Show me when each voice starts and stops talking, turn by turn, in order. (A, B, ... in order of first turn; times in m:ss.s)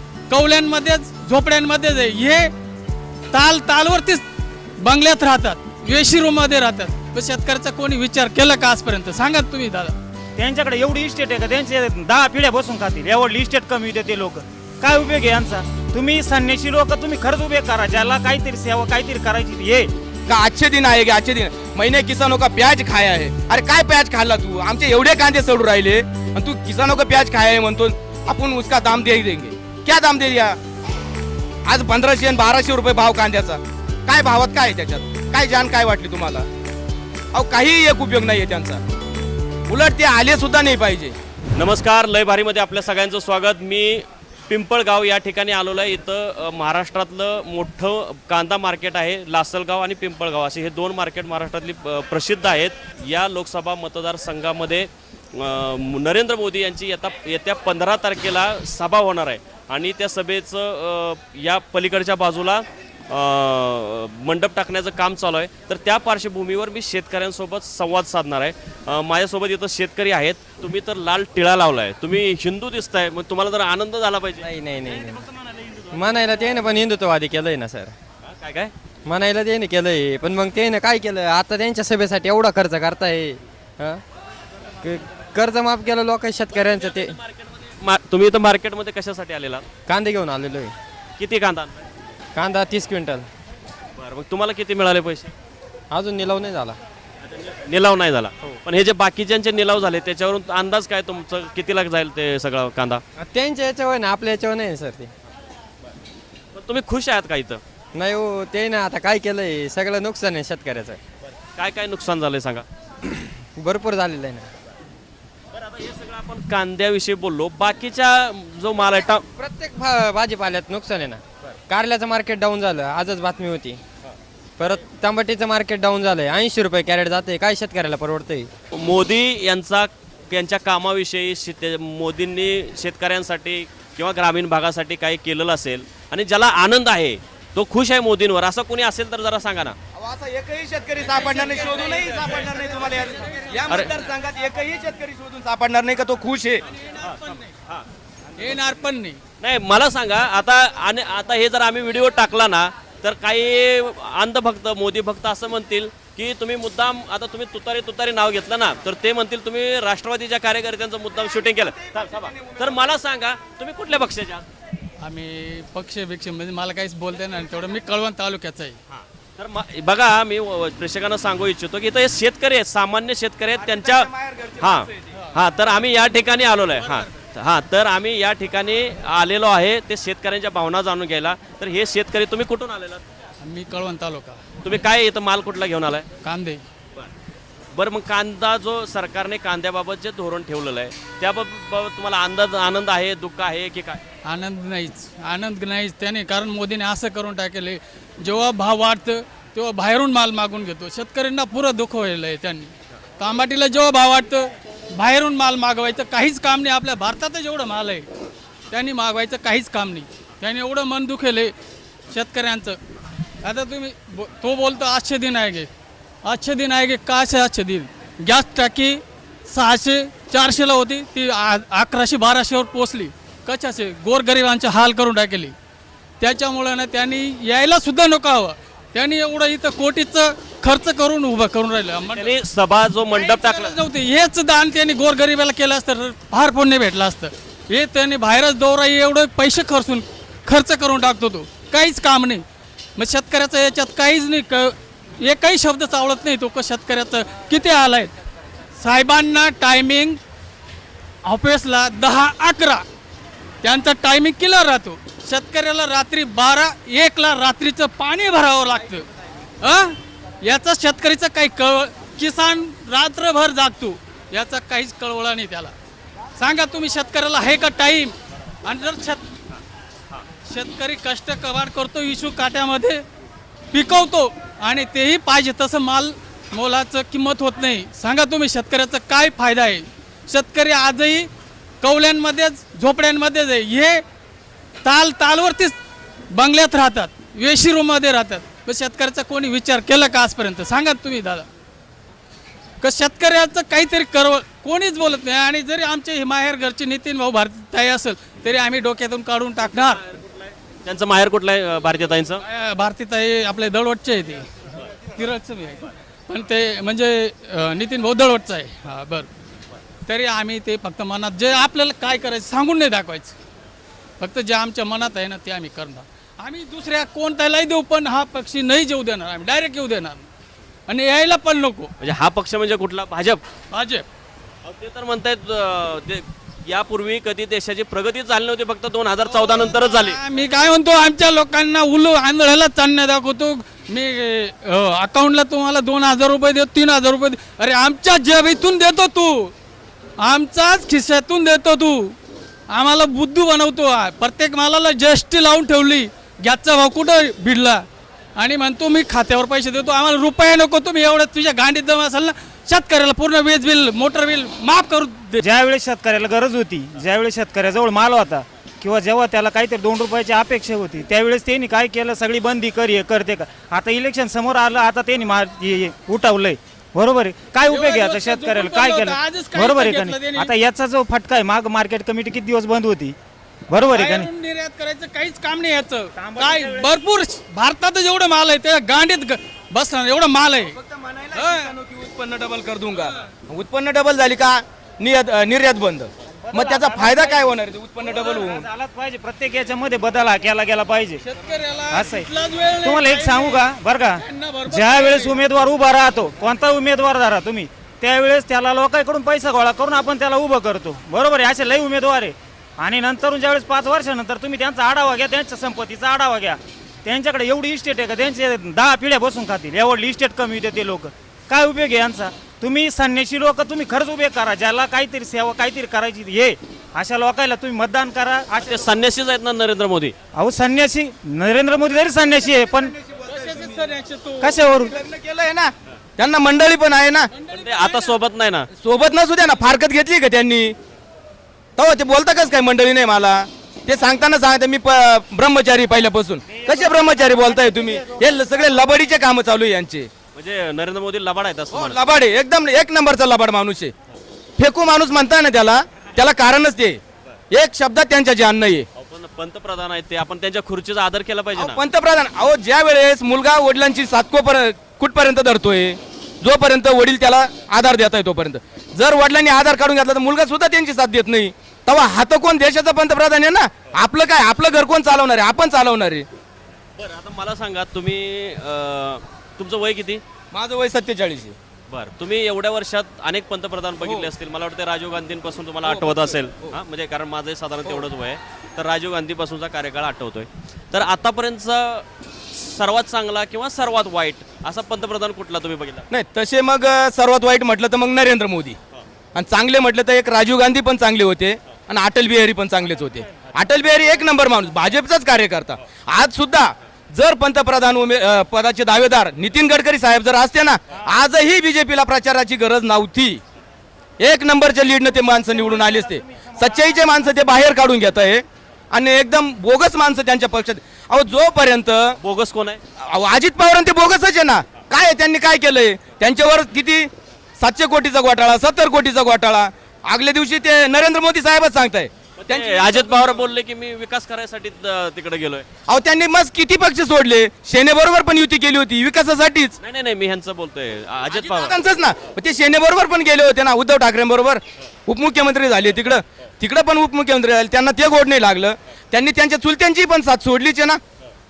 0:00.3-0:02.5 A
0:03.3-0:04.2 A
0:04.8-0:10.0 A
0:10.4-0:19.9 B
0:20.3-0:30.6 C
0:31.7-0:36.5 C
0:37.3-0:38.8 C
0:39.7-0:41.2 C
0:41.6-1:14.5 D
1:14.4-1:15.3 E
1:15.9-1:17.9 E
1:18.3-1:18.7 D
1:19.0-1:24.0 E
1:24.8-1:27.2 E
1:26.5-1:29.6 D
1:29.9-1:30.7 E
1:31.2-1:31.8 D
1:32.4-1:33.3 E
1:34.0-1:35.3 D
1:35.9-1:36.8 E
1:37.3-1:43.0 D
1:43.2-1:45.1 E
1:46.6-1:47.6 D
1:47.9-1:51.0 E
1:51.6-1:52.7 D
1:53.0-1:54.5 E
1:55.6-1:59.2 D
1:59.0-2:03.8 E
2:04.6-2:08.5 E
2:08.7-2:19.8 D
2:20.0-2:26.6 C
2:27.0-2:27.4 A
2:28.4-2:29.2 A
2:29.4-2:44.5 D
2:41.6-2:42.8 C
2:45.0-2:48.8 A
2:48.9-2:54.1 D
2:53.6-2:55.2 C
2:54.6-3:03.0 D
3:03.4-3:04.4 A
3:04.6-3:06.1 D
3:06.2-3:06.6 A
3:07.7-3:14.0 D
3:14.3-3:28.1 A
3:28.7-3:31.5 A
3:32.1-3:32.8 A
3:33.4-3:35.7 A
3:36.2-3:45.6 A
3:46.2-3:52.3 A
3:52.2-3:53.8 D
3:53.2-4:02.4 A
4:03.0-4:08.1 A
4:08.8-4:10.2 A
4:11.2-4:12.8 A
4:13.6-4:19.1 A
4:19.6-4:25.7 A
4:26.4-4:29.2 A
4:30.5-4:33.0 A
4:33.7-4:41.3 A
4:41.8-4:44.0 A
4:44.8-4:45.8 A
4:46.3-4:51.5 A
4:52.8-5:00.0 A
5:00.8-5:02.4 D
5:02.5-5:04.5 A
5:05.2-5:09.3 A
5:10.1-5:13.4 A
5:14.2-5:20.2 A
5:20.9-5:21.9 A
5:22.0-5:23.4 D
5:23.7-5:24.0 A
5:24.6-5:30.2 D
5:29.3-5:39.5 A
5:40.2-5:42.2 A
5:42.7-5:47.8 A
5:48.4-5:55.4 A
5:55.4-6:13.2 B
6:07.7-6:10.5 A
6:13.7-6:14.3 B
6:13.9-6:20.8 A
6:16.2-6:16.9 B
6:20.8-6:28.7 C
6:21.3-6:21.7 A
6:26.4-6:31.2 B
6:31.2-6:33.7 A
6:31.9-6:32.3 B
6:32.8-6:58.9 B
6:34.2-6:35.4 A
6:58.6-7:00.1 D
7:00.4-7:03.0 B
7:02.8-7:03.7 C
7:03.3-7:04.6 A
7:04.4-7:05.0 B
7:04.6-7:07.3 C
7:07.3-7:08.2 A
7:07.5-7:08.7 D
7:08.8-7:10.8 C
7:11.8-7:20.1 C
7:16.5-7:18.0 B
7:20.4-7:22.0 D
7:21.7-7:23.9 C
7:24.6-7:27.0 C
7:27.5-7:28.9 C
7:29.0-7:31.8 D
7:31.6-7:46.3 C
7:47.0-7:50.2 D
7:50.5-7:51.6 C
7:51.9-8:06.0 D
7:54.0-7:54.3 C
7:55.8-7:56.8 C
8:06.1-8:08.8 C
8:09.4-8:23.4 C
8:24.2-8:32.2 C
8:32.2-8:32.8 D
8:33.0-8:37.1 C
8:37.6-8:43.5 C
8:42.4-8:45.6 D
8:45.9-8:49.8 C
8:49.8-8:51.8 D
8:51.3-9:01.0 C